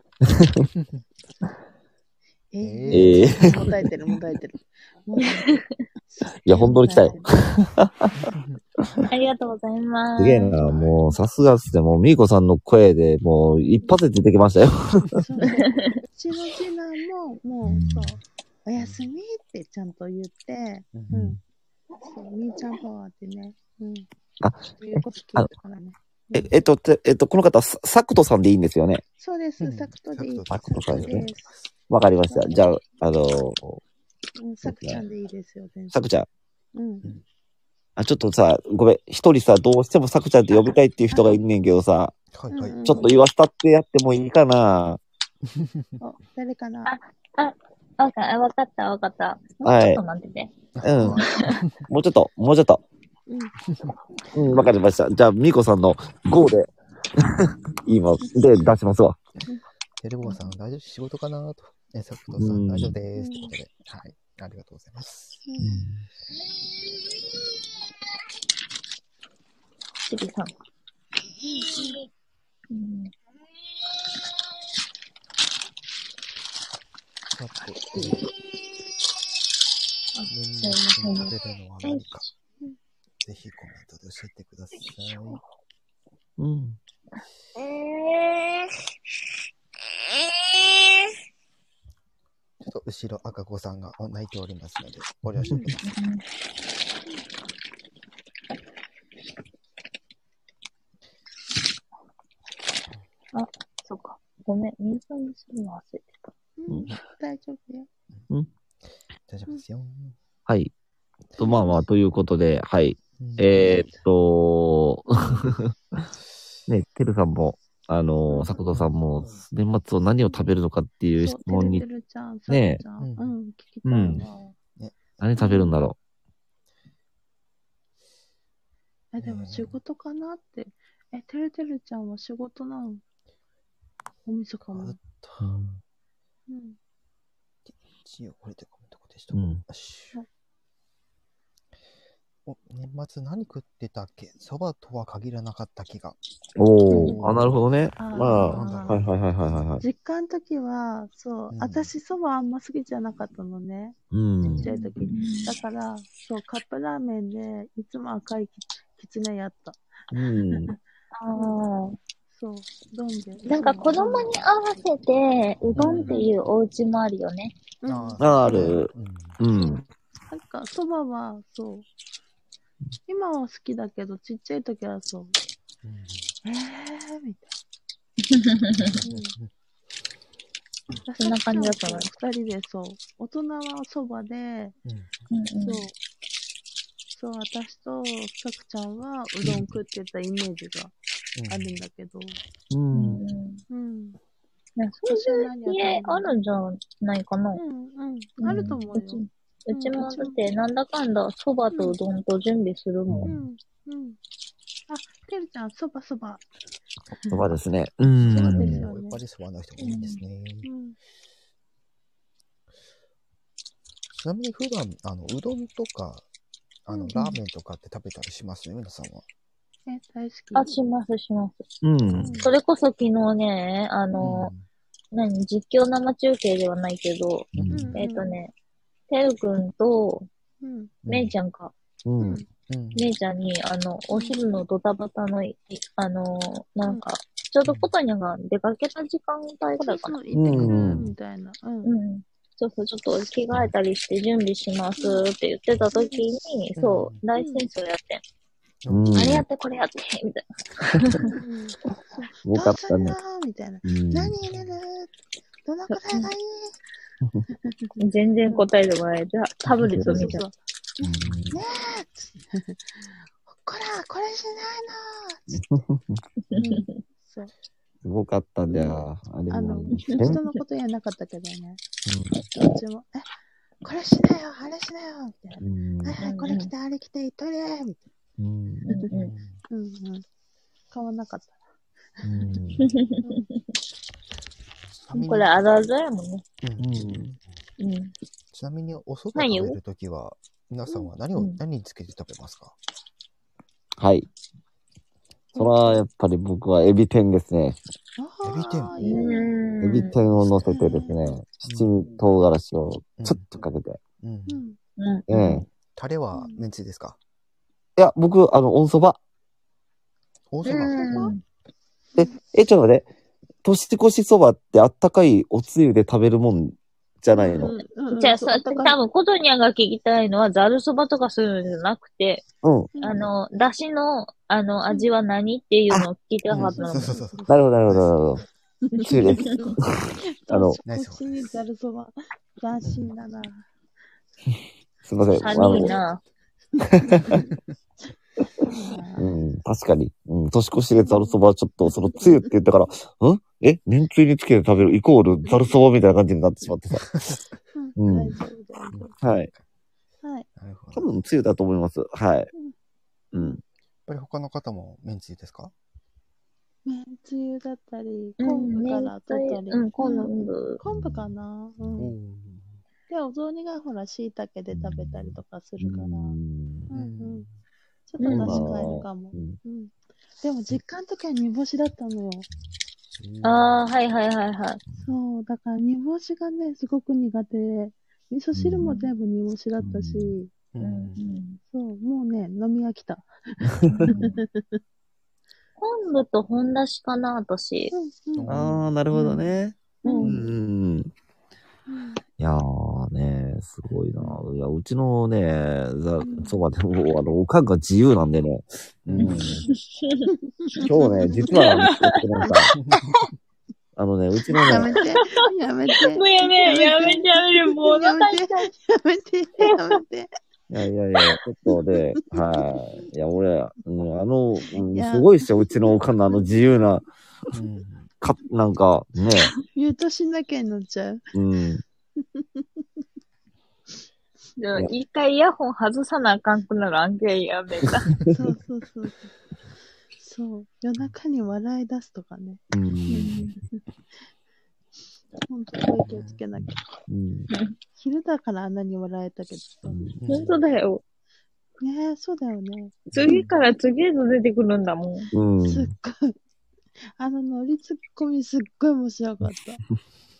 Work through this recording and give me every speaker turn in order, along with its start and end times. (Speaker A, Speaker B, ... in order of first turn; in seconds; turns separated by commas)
Speaker A: 0.2-0.7, Speaker B: 2.5-5.5, Speaker C: 2.6-3.7, Speaker A: 2.9-3.7, Speaker D: 5.2-5.7, Speaker B: 6.1-7.5, Speaker A: 6.4-8.1, Speaker C: 8.2-9.1, Speaker D: 9.1-10.8, Speaker A: 10.2-15.2, Speaker C: 10.7-11.0, Speaker B: 15.2-21.4, Speaker D: 15.6-16.0, Speaker A: 17.7-18.1, Speaker C: 18.8-19.1, Speaker C: 20.9-21.4, Speaker B: 22.0-24.1, Speaker A: 24.4-25.5, Speaker B: 24.7-26.5, Speaker A: 26.3-29.0, Speaker B: 29.2-31.5, Speaker C: 29.6-31.7, Speaker A: 30.5-31.3, Speaker A: 31.9-33.8, Speaker B: 32.3-32.7, Speaker B: 34.4-36.0, Speaker A: 34.6-35.0, Speaker A: 35.9-36.3, Speaker B: 36.8-37.1, Speaker A: 38.0-42.1, Speaker B: 41.1-41.4, Speaker C: 42.3-42.9, Speaker B: 42.5-43.1, Speaker A: 42.9-45.0, Speaker C: 45.5-46.0, Speaker B: 46.0-46.9, Speaker D: 46.9-50.5, Speaker A: 49.6-50.0, Speaker C: 50.8-51.8, Speaker A: 50.8-51.3, Speaker D: 51.1-51.6, Speaker A: 51.8-52.8, Speaker B: 53.3-53.5, Speaker C: 53.7-54.0, Speaker A: 54.3-59.2, Speaker C: 60.0-65.4, Speaker A: 62.4-63.0, Speaker B: 63.2-63.5, Speaker B: 65.5-65.8, Speaker A: 65.6-66.0, Speaker D: 70.1-70.5, Speaker B: 71.4-72.0, Speaker D: 71.5-72.0, Speaker D: 72.7-73.1, Speaker C: 77.3-78.3, Speaker D: 80.2-82.3, Speaker C: 80.3-82.2, Speaker C: 83.2-85.4, Speaker A: 86.4-86.8, Speaker D: 87.6-88.7, Speaker C: 92.6-95.8, Speaker D: 95.8-96.2, Speaker D: 103.3-106.2, Speaker B: 106.6-107.9, Speaker C: 109.3-110.2, Speaker A: 111.4-116.0, Speaker C: 113.2-113.8, Speaker B: 113.6-113.9, Speaker B: 115.1-115.5, Speaker A: 116.7-121.8, Speaker B: 118.3-118.6, Speaker B: 121.2-124.5, Speaker A: 122.5-122.8, Speaker C: 123.0-123.4, Speaker A: 123.8-124.2, Speaker C: 124.1-125.0, Speaker A: 125.2-126.0, Speaker B: 125.4-125.8, Speaker B: 129.1-133.0, Speaker C: 129.2-129.8, Speaker B: 134.2-135.0, Speaker C: 134.7-135.5, Speaker A: 135.4-135.8, Speaker B: 136.5-136.8, Speaker C: 137.7-140.2, Speaker A: 139.3-139.6, Speaker C: 142.5-146.2, Speaker A: 146.6-149.8, Speaker B: 146.9-147.2, Speaker C: 147.0-147.6, Speaker B: 148.0-149.0, Speaker C: 148.1-149.1, Speaker B: 149.8-160.8, Speaker C: 151.5-151.9, Speaker A: 154.1-154.7, Speaker C: 154.5-154.9, Speaker D: 155.1-155.6, Speaker A: 160.1-160.7, Speaker D: 161.2-162.0, Speaker B: 162.3-164.4, Speaker D: 163.5-167.5, Speaker C: 165.8-166.1, Speaker B: 165.9-166.4, Speaker B: 167.8-168.7, Speaker C: 167.8-169.4, Speaker A: 168.2-169.8, Speaker B: 169.5-171.9, Speaker B: 173.1-175.3, Speaker C: 175.8-176.3, Speaker B: 176.4-177.5, Speaker D: 178.3-178.9, Speaker C: 178.8-179.5, Speaker B: 179.0-179.4, Speaker B: 181.1-184.8, Speaker D: 181.2-182.1, Speaker C: 184.9-185.1, Speaker D: 185.3-185.9, Speaker B: 185.6-185.9, Speaker B: 187.1-190.9, Speaker C: 191.3-191.8, Speaker B: 191.5-192.4, Speaker A: 192.7-193.2, Speaker D: 192.9-193.6, Speaker B: 193.7-194.2, Speaker D: 194.8-197.6, Speaker B: 195.1-196.3, Speaker B: 197.6-200.4, Speaker D: 198.4-203.4, Speaker A: 198.5-198.8, Speaker A: 203.1-203.4, Speaker B: 203.3-204.2, Speaker B: 204.9-206.4, Speaker A: 207.3-208.8, Speaker C: 208.2-210.7, Speaker B: 208.3-209.2, Speaker D: 209.8-210.2, Speaker B: 210.7-211.0, Speaker C: 214.2-216.2, Speaker C: 216.9-219.2, Speaker B: 216.9-217.4, Speaker B: 219.9-220.7, Speaker D: 220.6-221.6, Speaker A: 221.8-222.4, Speaker B: 222.2-222.5, Speaker D: 222.4-224.5, Speaker C: 224.2-224.7, Speaker D: 225.1-228.5, Speaker C: 227.5-227.9, Speaker A: 227.6-228.0, Speaker B: 227.7-228.4, Speaker D: 229.1-230.3, Speaker B: 230.6-231.0, Speaker C: 231.1-231.3, Speaker D: 231.1-231.7, Speaker A: 232.1-232.4, Speaker B: 232.2-232.5, Speaker C: 232.7-233.1, Speaker D: 233.0-240.2, Speaker B: 234.1-234.4, Speaker C: 237.7-237.9, Speaker B: 239.8-241.9, Speaker A: 240.3-241.1, Speaker C: 240.6-240.9, Speaker D: 241.8-248.2, Speaker B: 245.0-245.2, Speaker B: 245.8-246.3, Speaker C: 246.8-247.2, Speaker B: 247.4-247.6, Speaker C: 248.8-249.4, Speaker A: 248.9-249.4, Speaker D: 249.2-251.4, Speaker B: 251.2-255.1, Speaker A: 252.4-253.2, Speaker A: 253.8-254.4, Speaker B: 255.7-256.8, Speaker B: 257.6-258.7, Speaker D: 258.0-260.4, Speaker A: 259.7-260.4, Speaker B: 260.0-265.8, Speaker A: 261.0-261.6, Speaker A: 265.5-266.7, Speaker B: 266.5-267.5, Speaker D: 266.5-266.9, Speaker A: 268.0-270.4, Speaker B: 268.7-271.8, Speaker D: 270.1-270.6, Speaker A: 272.1-272.4, Speaker B: 272.5-273.3, Speaker B: 273.8-278.0, Speaker A: 275.6-276.2, Speaker D: 276.2-276.7, Speaker A: 278.4-278.9, Speaker D: 278.9-279.3, Speaker C: 279.1-279.6, Speaker B: 279.7-280.2, Speaker B: 280.9-281.6, Speaker B: 282.2-282.5, Speaker A: 282.2-282.9, Speaker D: 282.8-283.6, Speaker C: 285.0-285.6, Speaker D: 285.1-286.4, Speaker C: 286.6-287.4, Speaker A: 286.8-287.3, Speaker D: 287.8-288.1, Speaker C: 288.5-292.8, Speaker D: 289.4-289.8, Speaker A: 294.0-294.3, Speaker A: 295.6-297.8, Speaker B: 295.6-296.0, Speaker B: 298.2-299.6, Speaker C: 298.4-299.4, Speaker D: 299.0-300.1, Speaker A: 299.8-304.0, Speaker B: 300.4-301.2, Speaker C: 301.6-301.9, Speaker C: 303.2-303.6, Speaker C: 304.2-304.6, Speaker B: 304.5-304.8, Speaker D: 305.0-305.6, Speaker A: 305.3-305.6, Speaker C: 305.9-307.2, Speaker B: 306.3-306.6, Speaker A: 308.0-309.2, Speaker C: 310.5-311.3, Speaker D: 310.6-311.4, Speaker B: 310.9-311.3, Speaker A: 312.2-313.1, Speaker A: 313.6-317.8, Speaker B: 317.3-319.0, Speaker D: 318.1-322.4, Speaker A: 322.6-322.9, Speaker B: 323.0-323.3, Speaker D: 323.0-327.1, Speaker C: 326.5-328.4, Speaker B: 326.5-327.5, Speaker A: 327.5-328.4, Speaker B: 328.9-329.8, Speaker A: 329.0-330.8, Speaker B: 330.4-333.6, Speaker C: 330.9-331.5, Speaker C: 332.8-333.1, Speaker A: 335.1-336.0, Speaker D: 335.3-336.2, Speaker B: 335.5-336.0, Speaker A: 336.9-337.5, Speaker B: 336.9-337.5, Speaker B: 338.6-339.3, Speaker A: 339.2-347.1, Speaker B: 340.9-341.4, Speaker B: 342.1-342.5, Speaker C: 347.1-347.4, Speaker B: 347.7-349.1, Speaker A: 348.0-348.4, Speaker C: 348.9-349.6, Speaker A: 349.2-349.5, Speaker B: 350.2-350.5, Speaker C: 350.6-351.2, Speaker A: 350.9-352.5, Speaker A: 353.3-353.6, Speaker C: 354.1-355.7, Speaker B: 356.9-362.1, Speaker D: 358.4-360.8, Speaker C: 362.0-362.8, Speaker B: 363.1-366.4, Speaker A: 364.7-366.9, Speaker B: 366.9-367.5, Speaker C: 366.9-367.5, Speaker B: 368.1-372.5, Speaker D: 368.2-368.6, Speaker A: 368.3-369.6, Speaker C: 373.2-373.8, Speaker D: 373.4-374.8, Speaker B: 375.0-380.5, Speaker A: 378.5-378.9, Speaker D: 378.8-379.1, Speaker A: 379.8-380.4, Speaker C: 380.7-381.2, Speaker D: 380.8-381.6, Speaker B: 381.7-384.8, Speaker A: 383.8-384.2, Speaker D: 385.8-387.9, Speaker B: 387.9-390.4, Speaker C: 388.4-388.8, Speaker A: 388.5-391.1, Speaker D: 390.1-390.4, Speaker B: 391.9-392.2, Speaker A: 392.4-399.6, Speaker C: 393.9-394.4, Speaker B: 396.2-396.6, Speaker C: 399.1-399.5, Speaker D: 399.2-402.2, Speaker B: 400.5-401.6, Speaker A: 400.8-402.7, Speaker C: 402.8-403.2, Speaker A: 404.0-404.9, Speaker B: 404.5-410.3, Speaker D: 404.6-405.4, Speaker D: 405.9-408.7, Speaker A: 410.7-417.1, Speaker B: 412.3-412.8, Speaker B: 414.8-416.5, Speaker C: 417.5-418.1, Speaker A: 418.2-419.5, Speaker B: 419.7-421.2, Speaker A: 421.3-421.8, Speaker B: 422.2-422.8, Speaker D: 424.6-428.1, Speaker B: 428.3-429.3, Speaker B: 430.2-433.8, Speaker A: 432.7-433.4, Speaker D: 433.1-433.6, Speaker B: 435.5-436.9, Speaker C: 436.0-436.4, Speaker A: 437.1-437.5, Speaker B: 438.0-440.1, Speaker A: 439.9-440.1, Speaker C: 440.1-440.6, Speaker D: 440.3-441.0, Speaker B: 441.8-443.1, Speaker A: 443.1-443.5, Speaker D: 443.2-445.3, Speaker A: 445.3-445.9, Speaker B: 445.6-446.4, Speaker B: 447.2-449.8